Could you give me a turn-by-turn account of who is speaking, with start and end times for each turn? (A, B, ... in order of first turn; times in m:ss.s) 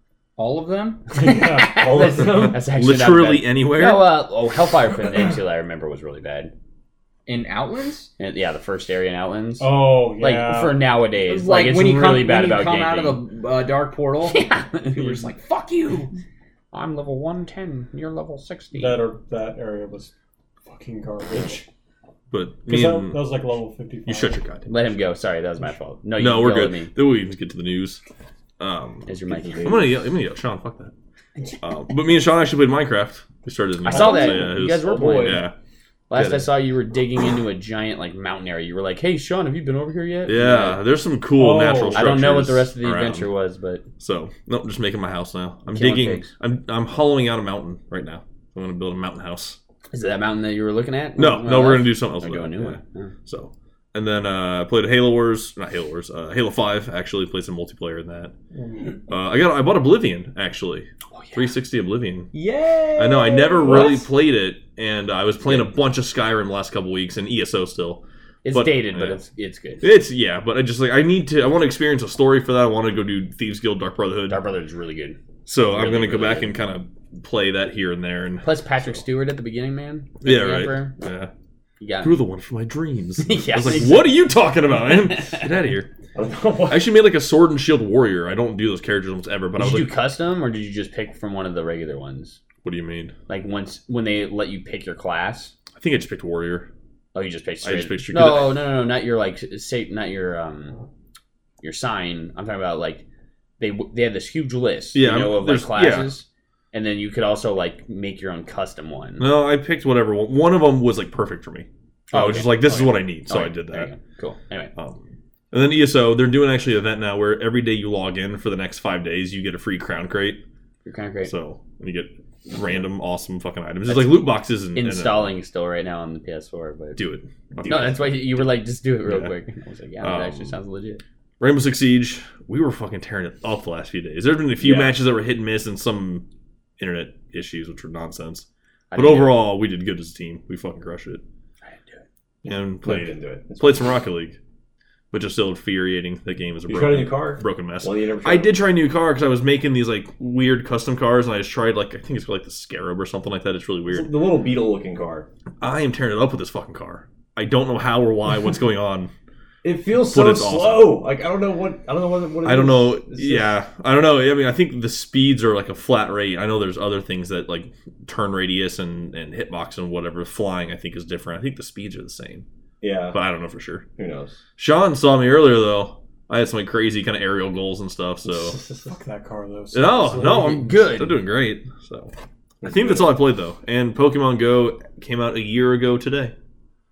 0:00.4-0:01.3 A
0:01.1-0:02.0 B
0:01.2-0:06.5 C
0:01.6-0:02.6 D
0:02.3-0:04.1 E
0:07.3-0:08.1 A
0:08.2-0:13.2 C
0:09.6-0:10.9 B
0:11.2-0:16.1 A
0:14.2-0:15.2 C
0:16.7-0:19.0 C
0:18.7-0:20.1 B
0:20.6-0:21.7 B
0:22.3-0:23.2 E
0:22.6-0:24.4 B
0:24.1-0:24.7 E
0:24.7-0:26.9 C
0:26.2-0:28.0 E
0:28.6-0:30.9 E
0:29.1-0:29.8 C
0:29.3-0:29.9 D
0:31.6-0:35.5 E
0:33.8-0:35.4 C
0:33.9-0:35.4 D
0:36.1-0:40.8 C
0:36.1-0:36.5 E
0:40.3-0:43.3 E
0:41.4-0:42.2 B
0:41.9-0:43.8 C
0:44.0-0:49.6 E
0:45.7-0:46.3 C
0:49.9-0:53.1 C
0:51.2-0:58.3 E
0:58.5-0:59.0 B
0:59.1-1:02.3 E
1:01.1-1:01.5 C
1:02.3-1:04.1 A
1:03.0-1:09.2 E
1:05.4-1:05.7 C
1:08.4-1:09.8 C
1:09.8-1:14.4 E
1:14.3-1:16.6 C
1:15.4-1:19.0 E
1:18.4-1:20.9 C
1:20.2-1:21.3 E
1:21.8-1:22.2 C
1:22.0-1:25.9 E
1:23.2-1:24.1 C
1:25.1-1:25.4 C
1:26.1-1:26.9 D
1:26.7-1:29.9 E
1:29.6-1:32.4 C
1:32.6-1:33.1 E
1:33.3-1:35.5 C
1:35.8-1:36.7 E
1:37.1-1:40.8 C
1:37.6-1:38.6 E
1:41.6-1:43.0 C
1:43.6-1:49.3 C
1:44.9-1:46.1 E
1:49.2-1:53.9 E
1:52.1-1:54.7 C
1:54.8-2:00.4 E
2:00.8-2:01.3 C
2:01.2-2:05.4 E
2:03.9-2:07.0 C
2:07.0-2:08.1 E
2:07.6-2:11.0 C
2:09.1-2:09.3 E
2:10.0-2:10.6 E
2:11.4-2:16.3 E
2:14.6-2:14.9 D
2:16.8-2:21.2 E
2:18.9-2:19.4 C
2:21.6-2:22.0 C
2:22.4-2:24.4 E
2:22.5-2:23.9 D
2:25.1-2:34.1 E
2:26.7-2:28.6 D
2:33.9-2:35.3 D
2:35.6-2:39.1 E
2:39.6-2:43.5 D
2:39.9-2:40.9 E
2:42.4-2:52.4 E
2:52.8-2:53.2 D
2:53.1-2:53.9 E
2:54.0-2:54.4 D
2:54.6-2:58.6 E
2:58.3-2:58.9 D
2:58.9-3:00.7 B
2:59.7-3:02.1 E
3:00.2-3:01.2 C
3:02.6-3:03.1 D
3:02.6-3:06.3 E